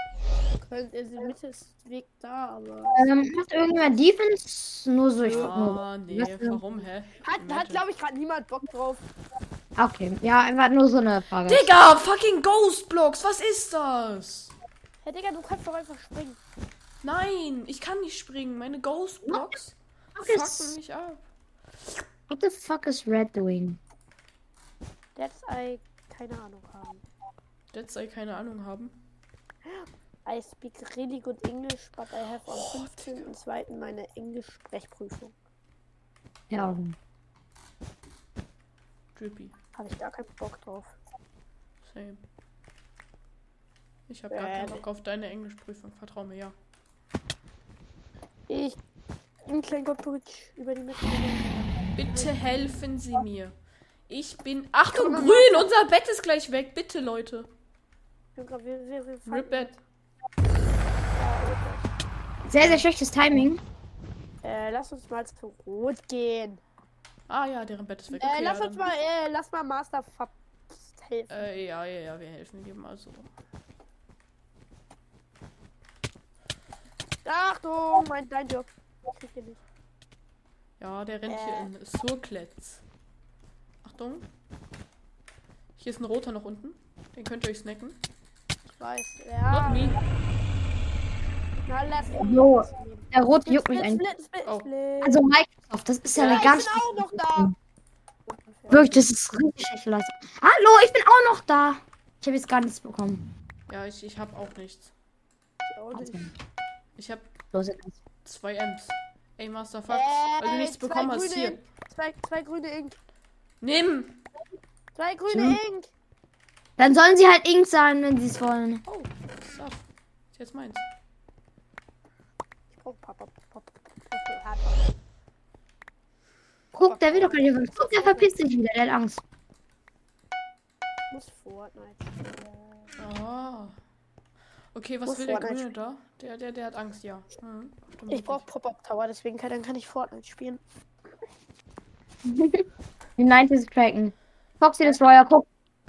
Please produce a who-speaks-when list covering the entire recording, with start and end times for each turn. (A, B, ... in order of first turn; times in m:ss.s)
0:00.6-0:03.1 A
0:02.9-0:06.6 B
0:05.2-0:07.8 C
0:07.2-0:09.0 A
0:09.8-0:11.7 B
0:11.5-0:14.5 C
0:15.0-0:16.4 A
0:17.0-0:21.2 C
0:19.2-0:19.5 B
0:20.2-0:20.8 B
0:22.3-0:23.8 B
0:25.2-0:27.0 A
0:27.7-0:29.0 C
0:29.7-0:35.4 A
0:32.5-0:33.3 C
0:36.5-0:37.0 B
0:39.2-0:39.5 C
0:39.8-0:41.0 A
0:41.8-0:42.2 C
0:44.1-0:46.5 C
0:44.3-0:44.8 A
0:48.5-0:48.8 A
0:49.5-0:52.3 A
0:52.0-0:53.6 C
0:54.1-0:57.5 C
0:54.9-0:55.7 A
0:58.4-0:59.8 A
0:59.2-0:59.7 C
1:01.2-1:01.9 A
1:02.5-1:03.6 B
1:02.6-1:02.9 C
1:04.4-1:06.6 A
1:07.3-1:08.9 C
1:08.1-1:11.4 A
1:11.3-1:13.3 C
1:17.2-1:19.6 A
1:20.8-1:22.8 C
1:21.3-1:21.7 A
1:23.8-1:24.3 C
1:25.8-1:28.0 C
1:28.7-1:30.0 A
1:29.5-1:30.0 C
1:31.6-1:35.2 A
1:32.2-1:34.0 B
1:35.0-1:37.5 B
1:36.1-1:37.5 A
1:38.2-1:39.1 A
1:38.7-1:43.2 B
1:43.7-1:44.9 C
1:45.6-1:46.3 A
1:45.9-1:46.3 B
1:47.0-1:47.3 C
1:47.5-1:48.0 B
1:48.2-1:51.6 C
1:49.9-1:53.0 A
1:53.6-1:54.2 C
1:55.0-1:55.9 A
1:55.3-1:55.6 B
1:56.8-1:58.8 B
1:58.9-2:00.9 C
2:02.7-2:04.8 A
2:06.7-2:08.4 A
2:06.7-2:09.2 B
2:11.1-2:13.0 A
2:13.0-2:13.8 C
2:14.7-2:18.5 C
2:15.1-2:15.7 A
2:18.1-2:20.6 A
2:22.2-2:22.6 B
2:23.2-2:25.5 B